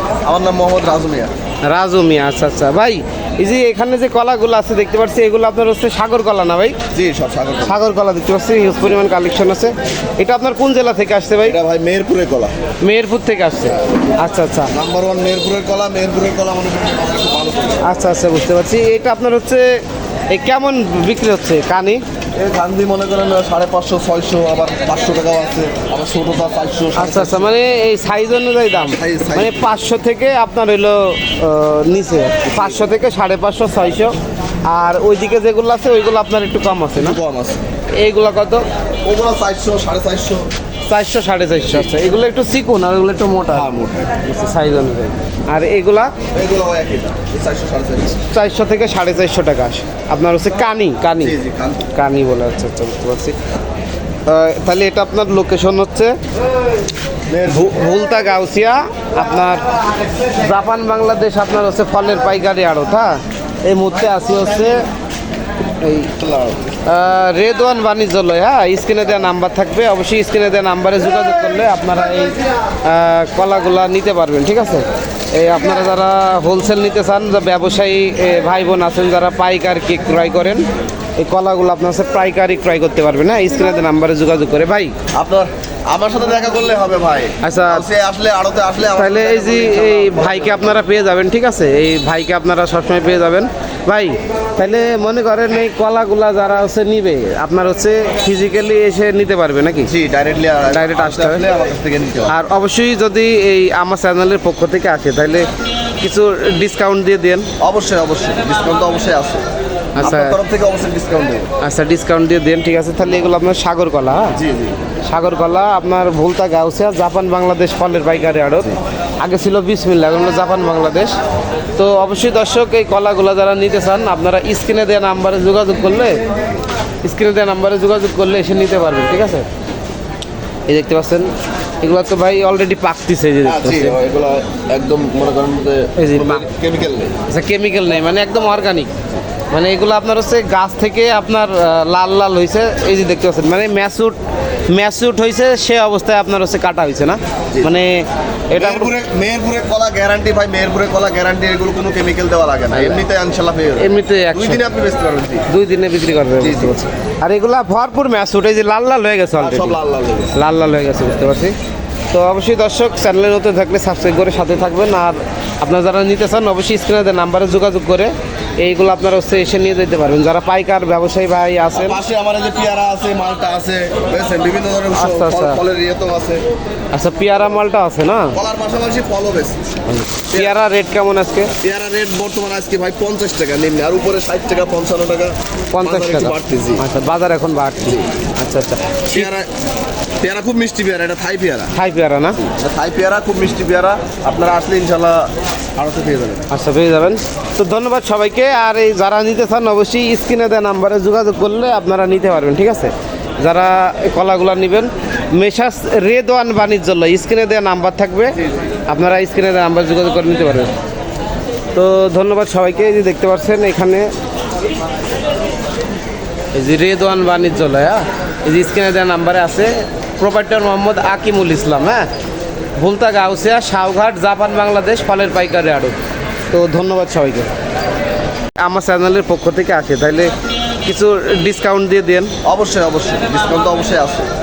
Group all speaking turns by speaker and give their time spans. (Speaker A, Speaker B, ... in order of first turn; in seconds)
Speaker A: 0.2-1.3, 6.9-7.8, 11.4-12.5, 14.7-17.8, 22.4-27.5, 28.8-29.7, 32.4-32.9, 37.0-37.6, 39.0-40.5, 43.5-44.1, 46.3-48.2, 51.2-51.9, 57.3-57.8, 66.2-66.6, 85.1-90.8, 99.9-102.4, 107.6-109.4, 110.0-111.5, 114.3-114.8, 133.4-137.1, 148.5-155.5, 156.4-156.7, 159.4-160.3, 171.7-176.4, 178.3-179.6, 181.6-186.8, 189.1-189.5, 190.2-191.7, 192.3-196.4, 232.4-234.3
Speaker B: 1.6-6.8, 7.6-11.6, 12.8-14.7, 17.8-22.0, 26.9-37.2, 37.9-38.6, 40.9-46.1, 48.2-51.4, 51.9-53.4, 54.2-56.2, 57.5-59.7, 60.4-64.8, 65.8-66.1, 66.8-80.6, 81.2-84.9, 87.4-87.8, 88.9-99.9, 100.7-101.4, 102.3-105.5, 106.0-107.5, 110.0-110.4, 111.6-114.3, 115.0-121.1, 121.8-126.2, 127.0-129.5, 130.7-133.9, 136.0-136.4, 137.3-138.9, 139.5-144.2, 144.7-148.9, 152.7-153.0, 153.8-154.6, 155.5-159.8, 160.3-161.5, 162.1-172.0, 174.9-175.6, 176.9-178.3, 179.9-181.5, 185.7-189.3, 191.7-192.4, 196.5-208.3, 208.9-210.7, 211.7-214.1, 216.5-222.1, 222.8-225.9, 226.5-227.5, 228.6-230.3, 230.8-232.3